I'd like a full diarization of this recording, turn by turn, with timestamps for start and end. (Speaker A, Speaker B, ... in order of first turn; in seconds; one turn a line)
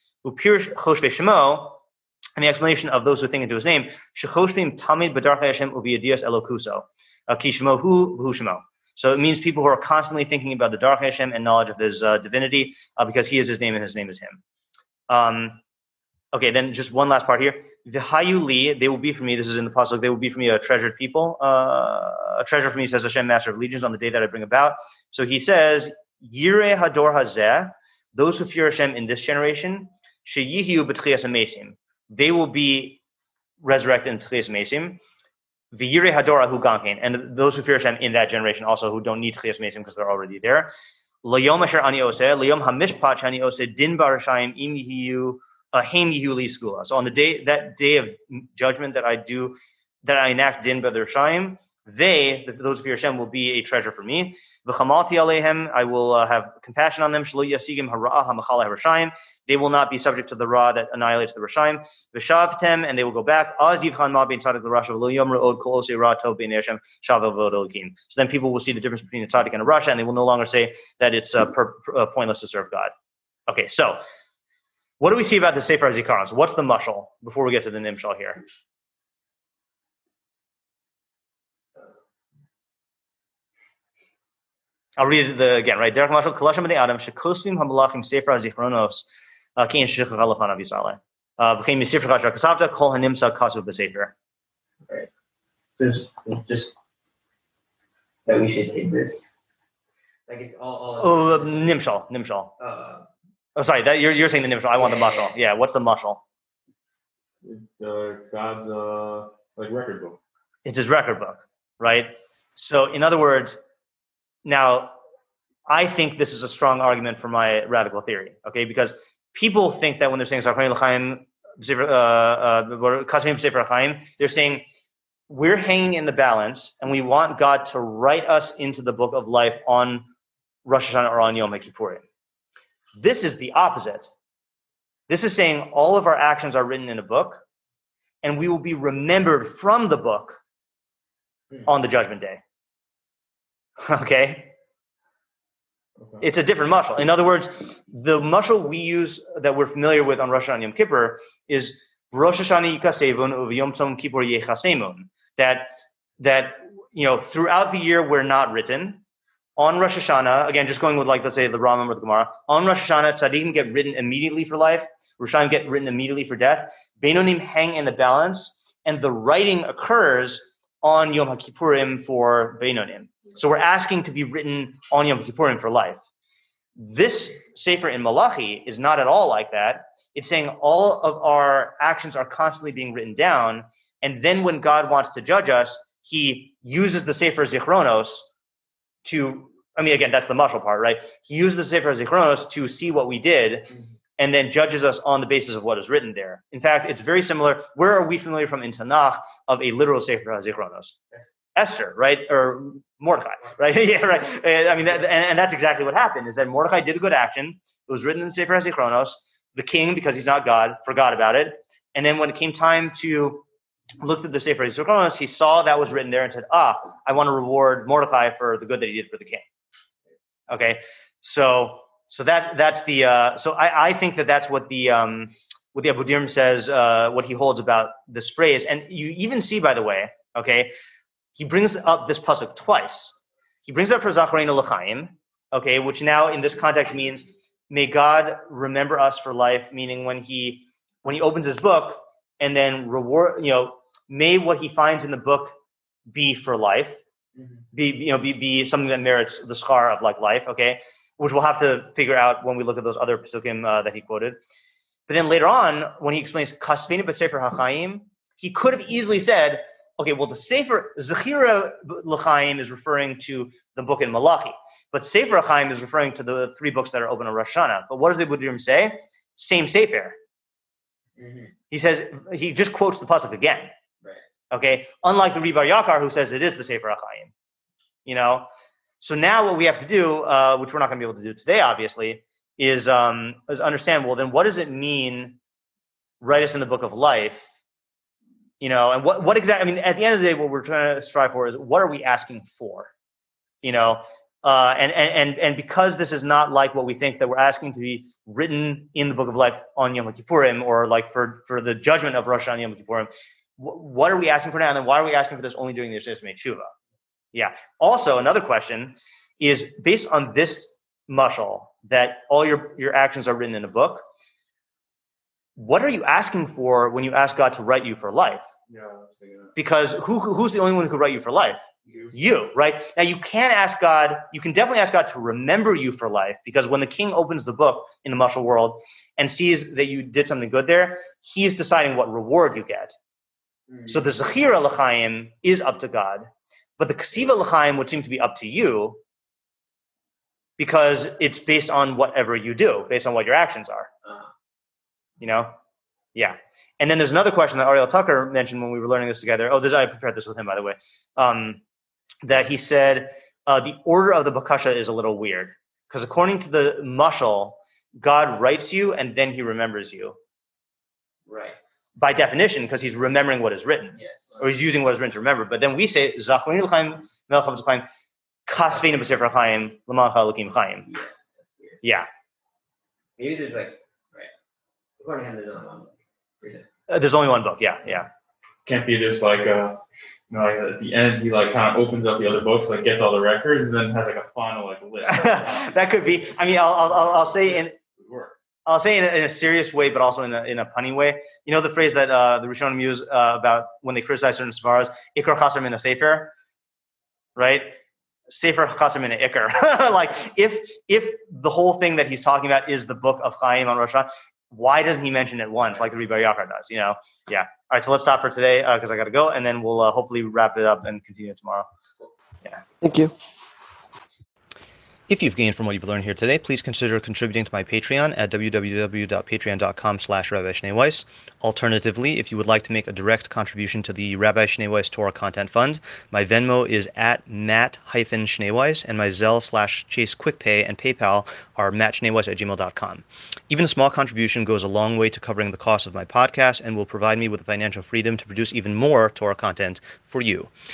Speaker A: 0.2-1.8
Speaker A: 2.4-14.4
Speaker A: 15.1-15.6
Speaker A: 16.3-33.0
Speaker A: 33.6-35.0
Speaker A: 35.7-40.7
Speaker A: 41.2-72.9
Speaker A: 73.5-74.0
Speaker A: 75.0-78.4
Speaker A: 85.0-89.0
Speaker A: 89.6-94.1
Speaker B: 95.8-96.7
Speaker B: 98.2-99.3
Speaker B: 100.3-101.7
Speaker A: 101.0-102.5
Speaker B: 102.6-103.1
Speaker A: 103.5-106.2
Speaker B: 104.7-105.3
Speaker C: 107.4-110.2
Speaker A: 110.6-113.6
Speaker A: 114.4-115.0
Speaker A: 115.7-124.6
Speaker A: 125.3-130.0
Speaker A: 130.6-132.0
Speaker A: 133.0-134.1
Speaker A: 135.1-137.4
Speaker A: 138.2-140.4
Speaker A: 141.6-142.4
Speaker A: 143.8-144.5
Speaker A: 146.2-159.0
Speaker A: 159.6-176.0
Speaker A: 176.8-188.3
Speaker A: 189.0-200.9
Speaker A: 201.5-213.4
Speaker A: 214.0-219.4
Speaker A: 220.5-230.7
Speaker A: 231.3-245.5
Speaker A: 246.1-247.0
Speaker A: 247.7-254.4
Speaker A: 255.1-270.1
Speaker B: 271.2-271.5
Speaker A: 271.7-273.7
Speaker A: 274.5-277.3
Speaker A: 278.1-278.5
Speaker A: 279.0-285.4
Speaker A: 286.2-287.4
Speaker A: 288.6-292.9
Speaker A: 293.6-306.7
Speaker A: 307.3-314.0
Speaker A: 315.6-318.4
Speaker C: 318.7-319.6
Speaker A: 319.6-321.6
Speaker A: 322.1-332.9
Speaker A: 333.9-339.0
Speaker A: 340.6-343.9
Speaker A: 345.2-345.5
Speaker A: 346.1-351.6
Speaker A: 352.2-360.1
Speaker B: 361.3-361.6
Speaker A: 362.0-367.9
Speaker B: 363.9-364.4
Speaker A: 368.5-370.9
Speaker B: 370.9-371.8
Speaker A: 371.8-372.1
Speaker B: 373.2-374.3
Speaker B: 375.0-376.7
Speaker A: 376.9-378.1
Speaker C: 378.6-386.2
Speaker A: 385.0-387.8
Speaker C: 388.0-388.3
Speaker A: 388.6-396.3
Speaker A: 397.4-397.8
Speaker A: 398.3-411.7
Speaker A: 415.1-440.5